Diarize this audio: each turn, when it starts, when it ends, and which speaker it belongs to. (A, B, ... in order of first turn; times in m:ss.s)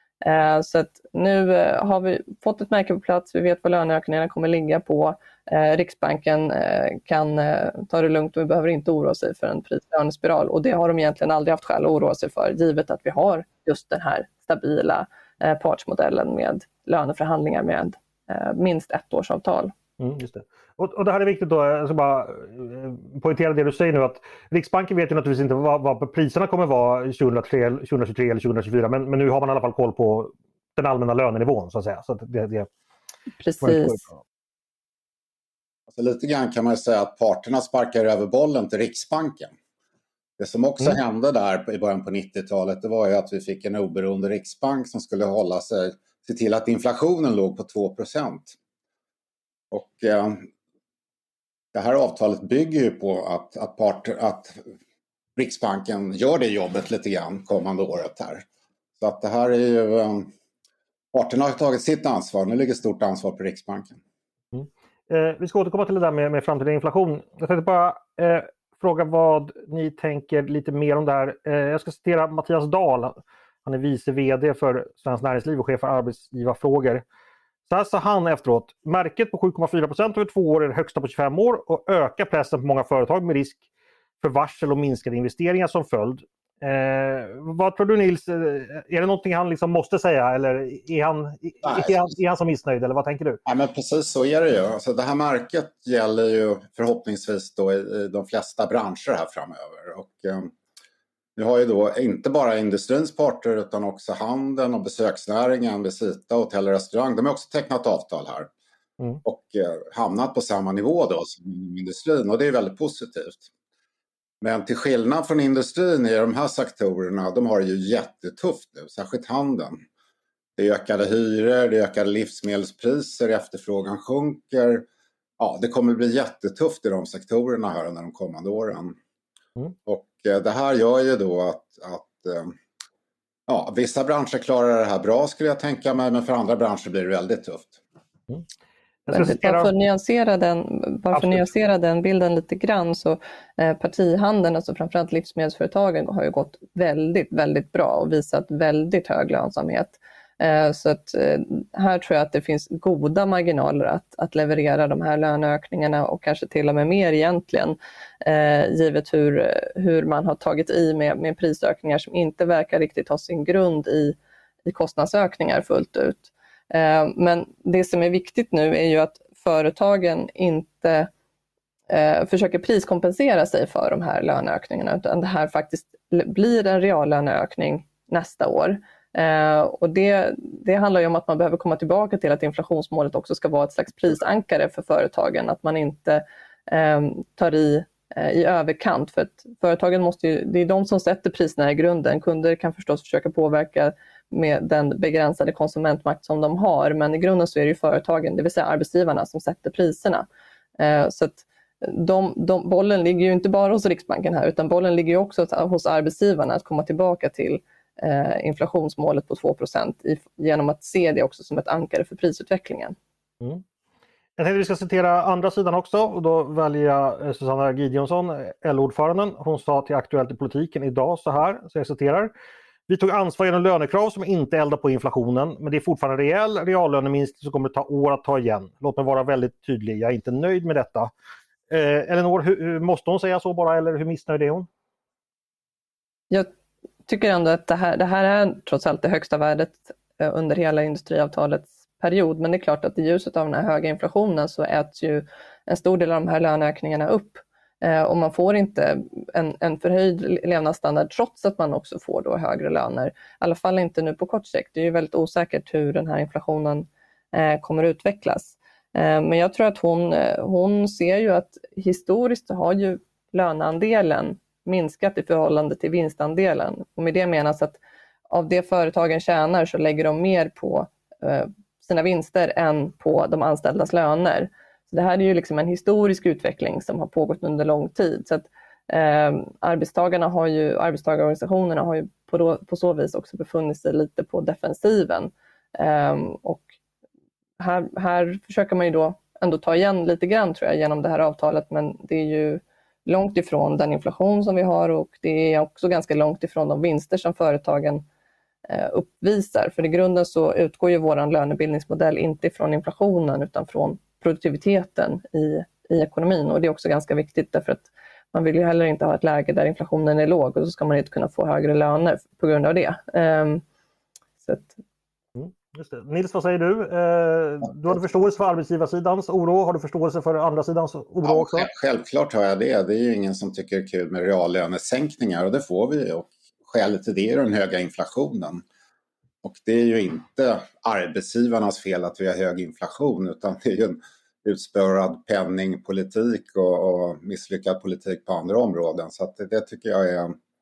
0:00.2-0:19.7 A
0:20.0-0:32.7 B
0:33.4-0:34.0 A
0:33.6-0:34.1 B
0:35.9-0:39.5 C
0:40.4-0:48.6 C
0:49.7-0:50.4 C
0:51.7-0:54.6 C
0:55.4-0:58.4 C
0:59.0-1:00.3 C
1:01.1-1:04.0 C
1:04.5-1:17.0 B
1:17.7-1:23.6 B
1:24.2-1:33.4 B
1:31.6-1:32.0 C
1:33.4-1:40.5 C
1:41.4-1:48.5 C
1:49.2-1:53.5 C
1:54.4-1:59.8 C
2:00.6-2:04.8 C
2:05.4-2:09.0 C
2:09.8-2:12.6 C
2:13.5-2:17.8 C
2:19.1-2:19.7 B
2:19.1-2:51.1 A
2:21.1-2:21.5 B
2:51.9-3:20.2 A
3:20.8-3:33.0 A
3:34.4-3:42.3 B
3:42.9-3:51.1 B
3:51.7-3:54.7 B
3:57.1-4:27.8 A
4:28.3-4:46.7 A
4:47.6-4:58.0 A
4:58.7-5:13.6 A
5:14.4-5:14.8 A
5:15.4-5:21.7 B
5:21.2-5:28.6 C
5:29.4-5:40.4 C